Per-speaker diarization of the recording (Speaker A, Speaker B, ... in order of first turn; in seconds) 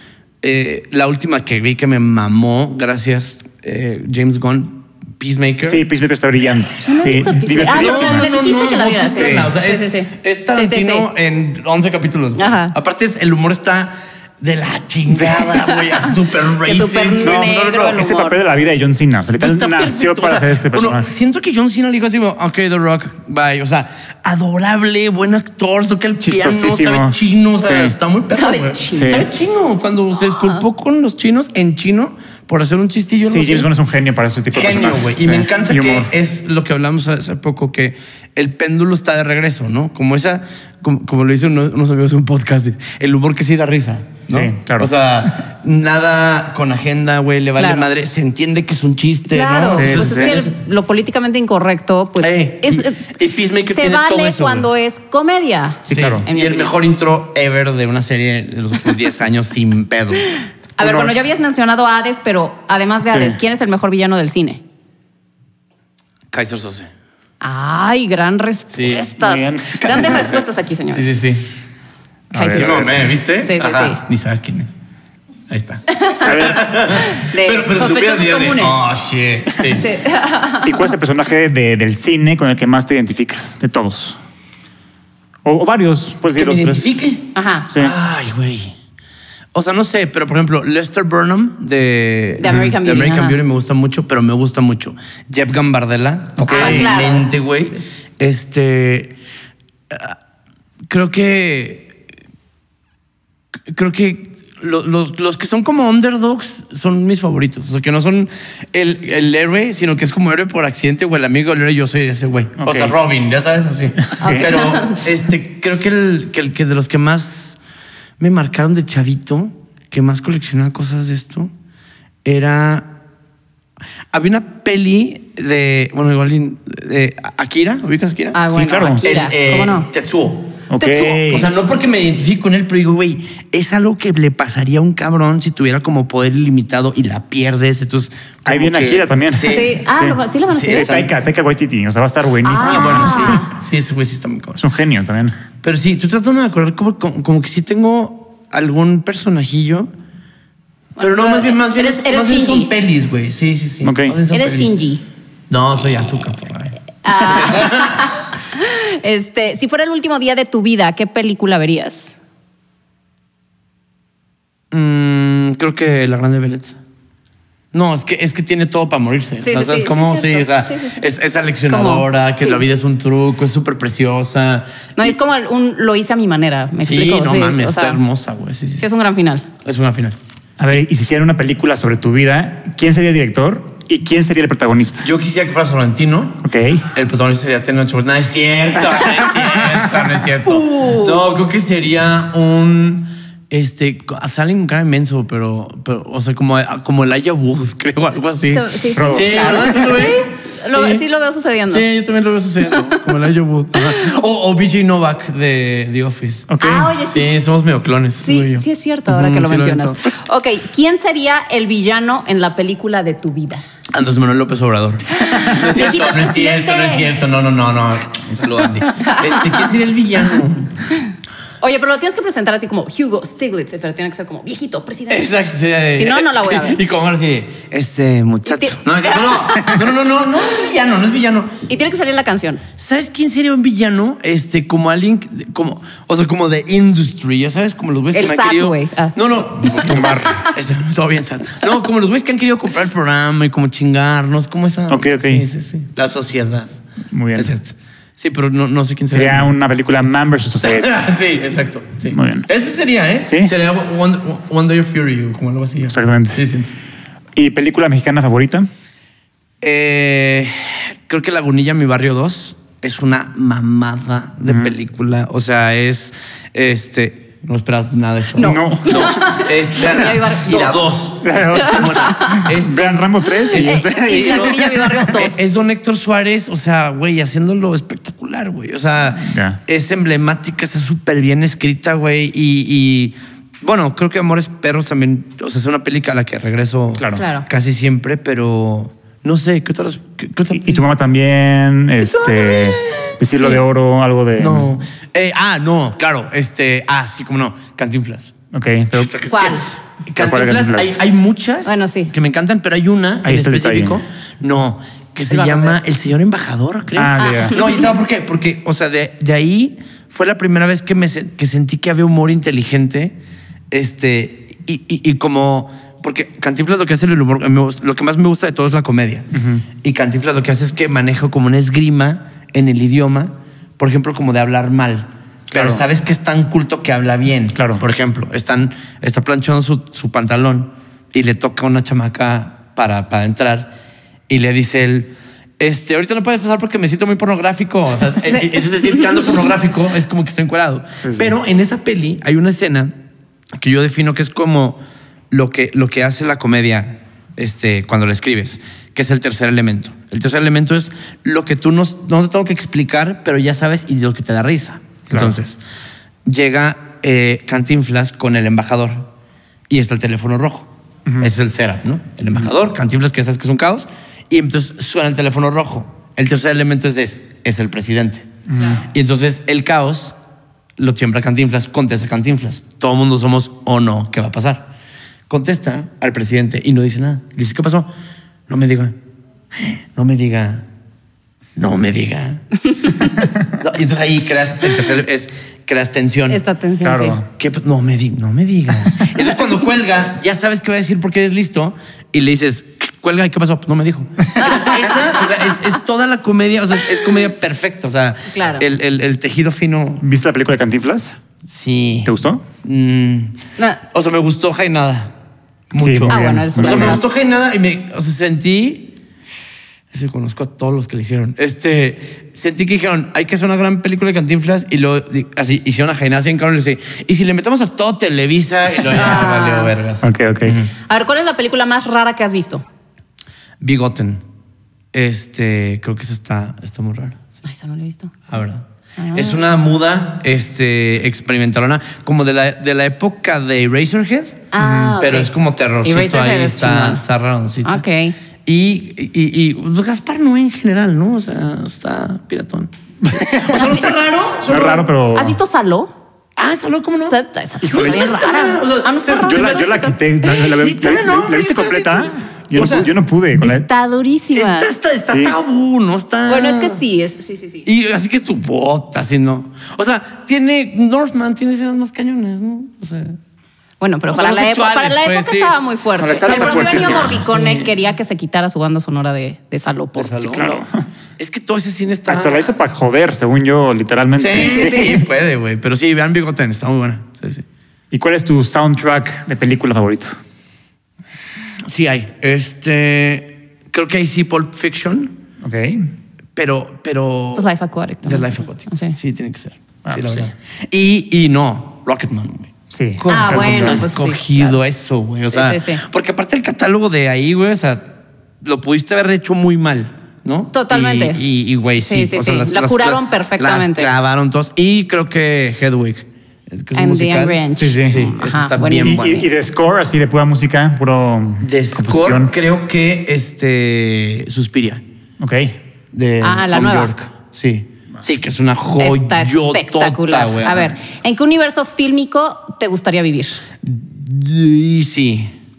Speaker A: 0.4-5.8, 7.5-18.0, 19.4-33.7, 34.5-50.5, 52.2-54.7, 55.9-60.3, 66.3-66.9, 68.7-69.1, 69.8-71.4, 72.5-74.7, 75.5-79.9, 86.3-88.7, 89.5-99.2, 99.9-100.2, 100.9-101.9, 103.7-117.6, 118.2-121.5, 122.2-122.9, 124.1-128.4, 129.0-130.6, 131.3-139.8, 140.5-141.1, 142.6-144.6, 145.6-149.9, 151.0-154.8, 155.5-158.0, 164.7-166.8, 167.7-175.1, 176.8-178.9, 179.6-180.2, 185.0-201.0, 201.7-206.5, 207.1-210.0, 213.9-220.8, 225.1-231.6, 232.8-246.8, 247.3-249.5, 250.6-256.7, 259.6-290.9, 292.0-293.6, 294.4-298.3, 298.9-313.1, 313.7-319.3, 319.8-333.7, 334.3-342.9, 343.6-344.8, 345.3-355.6, 356.2-359.1, 359.7-368.3, 368.8-370.1, 370.8-374.7, 375.3-377.9, 378.5-378.9, 379.6-380.6, 381.6-383.0, 383.6-386.4, 387.3-400.0, 401.5-403.4, 403.9-405.1, 405.7-408.9, 409.9-420.7, 423.6-424.2, 424.9-427.2, 428.3-434.5, 435.0-437.8, 438.4-444.8, 446.4-449.7, 450.4-452.9, 454.3-456.8, 457.6-463.2, 464.1-465.6, 466.1-467.7, 469.9-470.6, 471.2-472.5, 474.2-477.4, 481.7-485.1, 486.4-487.5, 488.0-509.3, 511.4-514.8, 515.9-520.7, 523.6-525.3
Speaker B: 5.6-8.3, 9.2-9.5, 15.1-15.5, 17.2-21.1, 26.2-27.9, 28.9-29.3, 33.3-36.1, 44.3-44.9, 49.7-50.4, 55.9-56.2, 60.8-61.1, 63.0-63.4, 69.2-70.3, 72.3-73.1, 76.2-76.7, 80.6-84.2, 85.4-86.9, 87.7-87.9, 96.4-97.0, 112.6-112.9, 114.1-114.5, 128.5-129.0, 130.7-131.5, 138.4-143.4, 144.6-145.4, 153.8-154.2, 180.6-185.1, 186.4-186.8, 189.2-189.8, 198.9-199.7, 206.5-206.9, 239.8-240.4, 244.9-245.4, 247.1-247.5, 249.1-251.0, 252.1-252.5, 253.3-253.5, 255.9-256.4, 257.3-258.7, 264.4-264.7, 268.4-269.2, 271.2-274.8, 279.2-279.6, 287.0-287.2, 290.5-294.7, 298.5-299.1, 300.2-301.0, 303.2-304.0, 306.9-307.6, 319.3-319.6, 325.5-325.8, 327.5-327.8, 341.0-341.3, 355.1-355.4, 368.5-368.8, 386.8-387.2, 400.0-401.1, 402.0-402.4, 405.7-407.0, 420.0-420.6, 434.6-434.9, 443.0-443.8, 444.4-445.4, 447.6-448.1, 449.1-453.7, 455.1-455.4, 466.0-467.2, 470.3-470.7, 472.1-475.0, 477.9-480.1, 485.4-485.9, 489.8-490.3, 492.7-493.9, 507.6-508.1, 508.8-512.3, 515.2-515.5
Speaker C: 6.8-11.1, 12.4-12.7, 15.7-16.1, 16.6-18.4, 28.3-29.3, 47.6-47.9, 49.3-53.0, 53.6-56.7, 60.8-64.6, 67.4-71.1, 72.3-74.0, 75.9-78.9, 79.8-80.9, 87.3-87.7, 92.4-93.4, 96.5-97.3, 114.2-115.0, 128.3-129.9, 130.8-131.5, 139.5-141.0, 142.4-143.5, 151.0-152.7, 154.3-155.0, 157.0-162.2, 169.4-171.0, 171.7-172.6, 175.0-178.0, 178.8-179.4, 190.4-191.2, 198.5-201.8, 206.6-207.3, 208.2-213.6, 215.2-217.1, 219.0-219.6, 221.6-226.8, 228.4-229.8, 231.7-232.6, 238.1-239.8, 268.4-270.8, 271.5-272.5, 273.5-275.4, 287.1-287.4, 299.3-299.7, 301.6-302.1, 305.3-305.8, 307.2-307.9, 338.3-339.2, 386.3-387.2, 394.4-395.2, 398.3-398.6, 406.1-407.1, 418.9-419.7, 420.9-422.6, 427.4-428.1, 429.0-429.4, 434.5-435.3, 435.8-437.0, 437.6-438.1, 445.1-445.9, 447.1-450.3, 453.4-454.7, 456.3-457.6, 463.8-470.6, 474.4-475.0, 487.4-488.9, 493.1-494.6, 495.3-495.8, 500.5-501.2, 501.9-503.9, 506.7-509.2, 516.2-516.9, 518.8-523.4